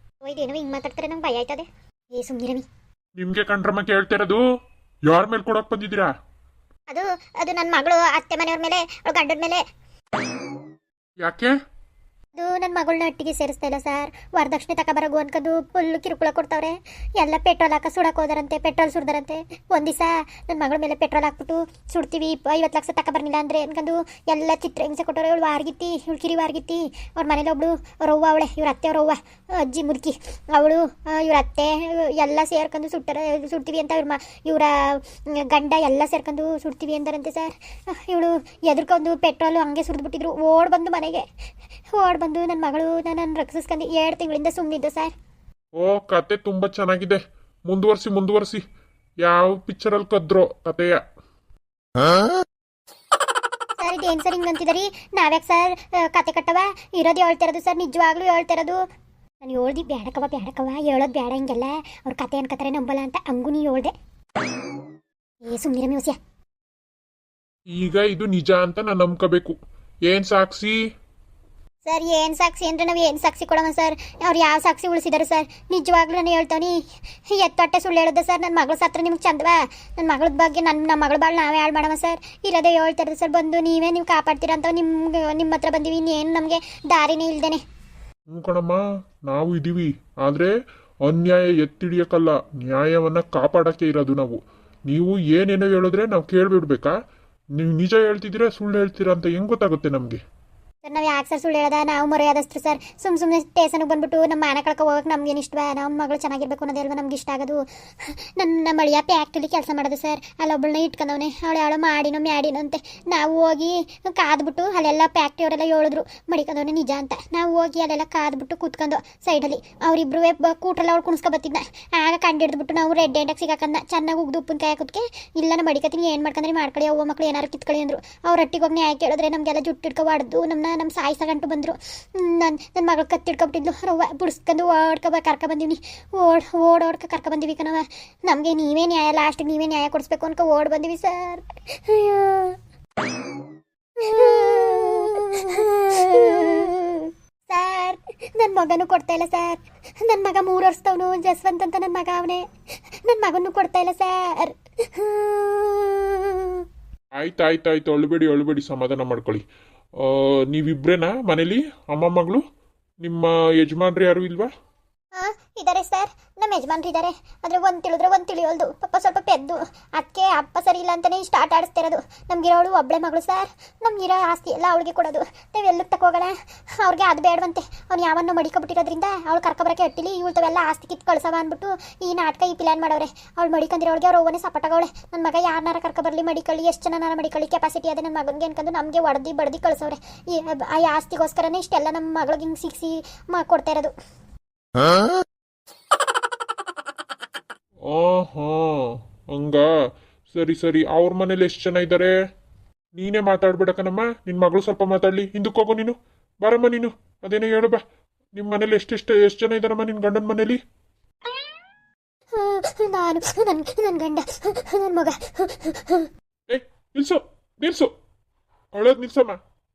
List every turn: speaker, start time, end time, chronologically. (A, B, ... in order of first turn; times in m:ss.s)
0:00.2-0:02.6 A
0:03.2-0:04.4 B
0:05.1-0:06.1 B
0:06.9-0:09.6 A
0:11.2-0:11.5 B
0:12.4-0:41.2 A
0:41.9-0:45.1 A
0:45.8-0:48.6 B
0:49.2-0:51.0 B
0:53.8-0:58.8 A
0:59.4-1:03.9 A
1:05.4-1:06.2 A
1:07.7-1:09.6 B
1:10.1-1:10.8 B
1:11.8-1:16.8 A
1:17.3-1:27.6 A
1:28.3-1:30.5 B
1:31.0-1:36.9 B
1:37.6-1:40.2 B
1:40.8-2:22.6 A
2:24.0-2:32.5 A
2:33.0-2:36.6 A
2:37.2-2:39.4 B
2:40.0-2:42.4 B
2:43.0-2:44.5 B
2:45.2-3:13.9 A
3:17.9-3:19.7 B
3:20.3-3:22.1 B
3:23.0-3:27.8 B
3:28.4-3:30.6 B
3:32.3-3:36.1 A
3:36.5-3:37.9 B
3:38.7-3:39.4 B